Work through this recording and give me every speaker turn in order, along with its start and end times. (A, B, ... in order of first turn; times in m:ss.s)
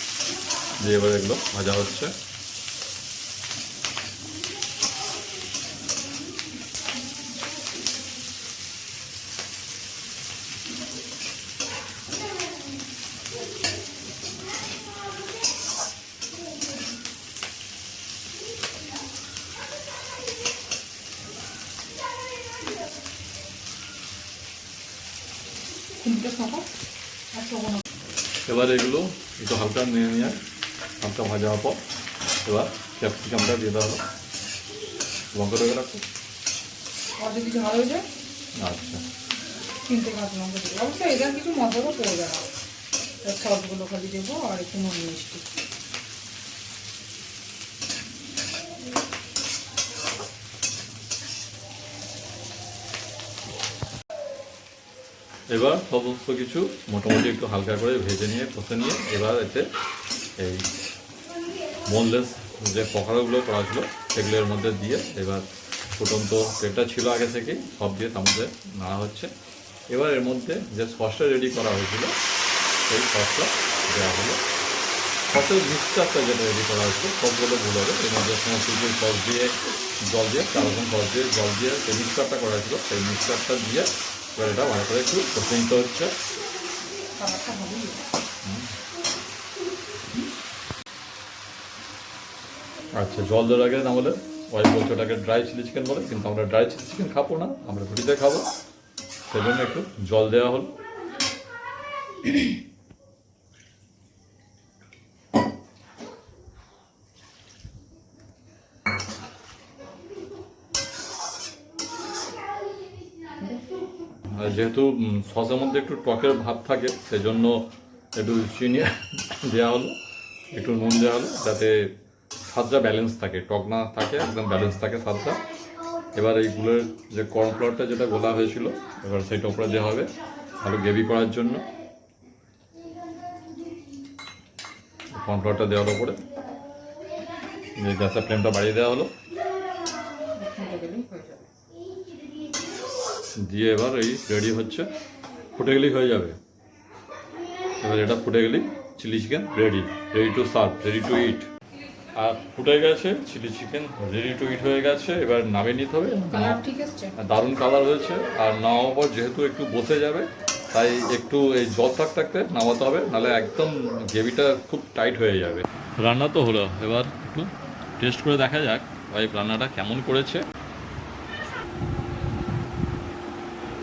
0:00.8-0:02.1 A
0:26.0-0:26.7 B
0:27.3-0:27.8 B
0:28.5-0:30.4 A
0:31.0-0:31.8 A
0:32.4-0:34.0 A
0:35.3-0:36.0 A
0:37.2-0:38.1 B
0:38.6-0:39.0 A
0:39.8-0:42.5 B
0:43.2-0:45.5 B
0:55.5-0:59.7 A
1:00.4-1:00.7 A
1:01.9-1:09.3 A
1:09.9-1:12.2 A
1:12.9-1:14.4 A
1:15.3-1:26.2 A
1:27.2-1:28.0 B
1:28.4-1:28.7 A
1:33.0-1:38.5 A
1:39.3-1:40.8 A
1:54.3-2:00.0 A
2:00.5-2:02.0 A
2:02.5-2:05.4 A
2:06.2-2:11.7 A
2:15.1-2:16.2 A
2:17.8-2:19.1 A
2:20.4-2:21.5 B
2:23.4-2:24.9 A
2:25.5-2:26.4 A
2:27.8-2:31.5 A
2:32.2-2:36.6 A
2:36.3-2:37.2 B
2:37.2-2:50.5 A